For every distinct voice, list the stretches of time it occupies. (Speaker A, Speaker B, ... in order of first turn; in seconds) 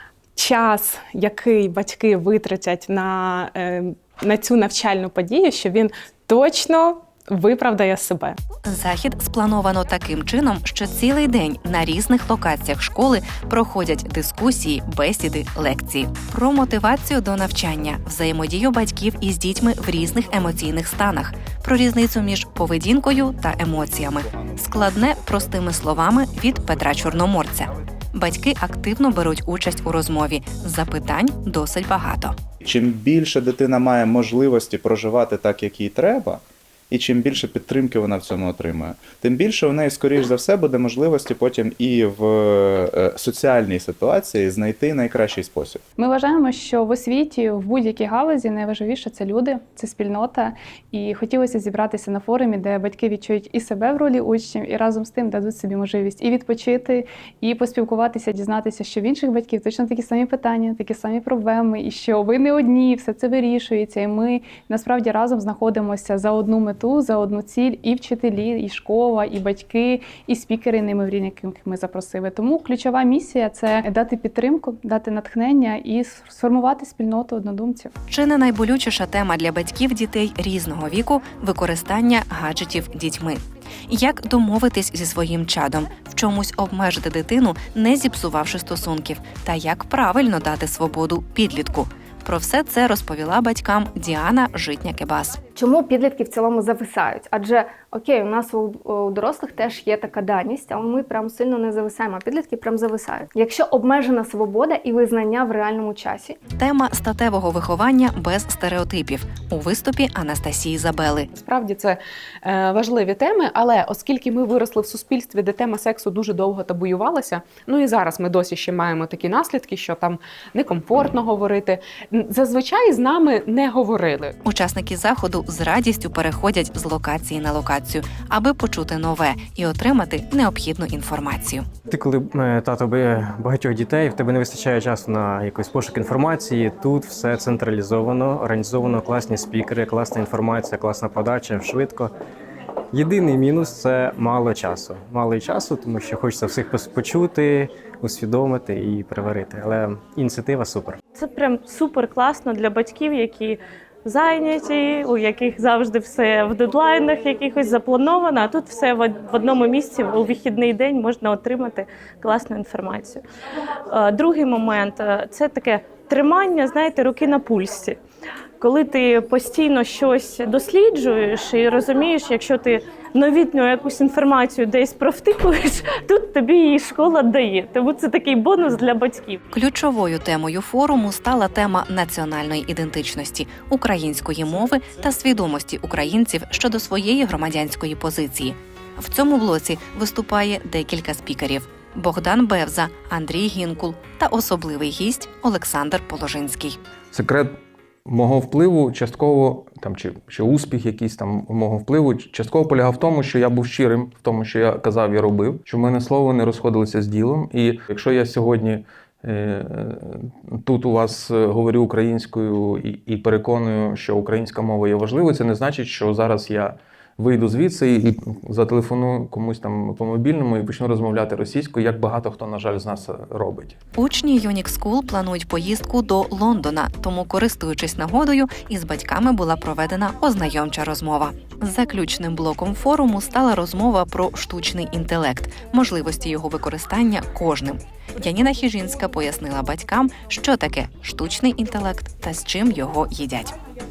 Speaker A: 0.3-8.4
Speaker B: 8.6-32.4, 78.1-95.4, 106.5-111.3, 124.4-131.7, 179.5-196.8, 223.9-243.5
Speaker C: 32.6-45.8
Speaker D: 46.0-77.9
Speaker E: 95.5-106.4
Speaker F: 111.3-124.4
Speaker G: 131.9-142.1, 142.9-151.0
Speaker H: 151.2-163.2, 163.9-168.0, 168.6-179.4
Speaker I: 197.1-223.8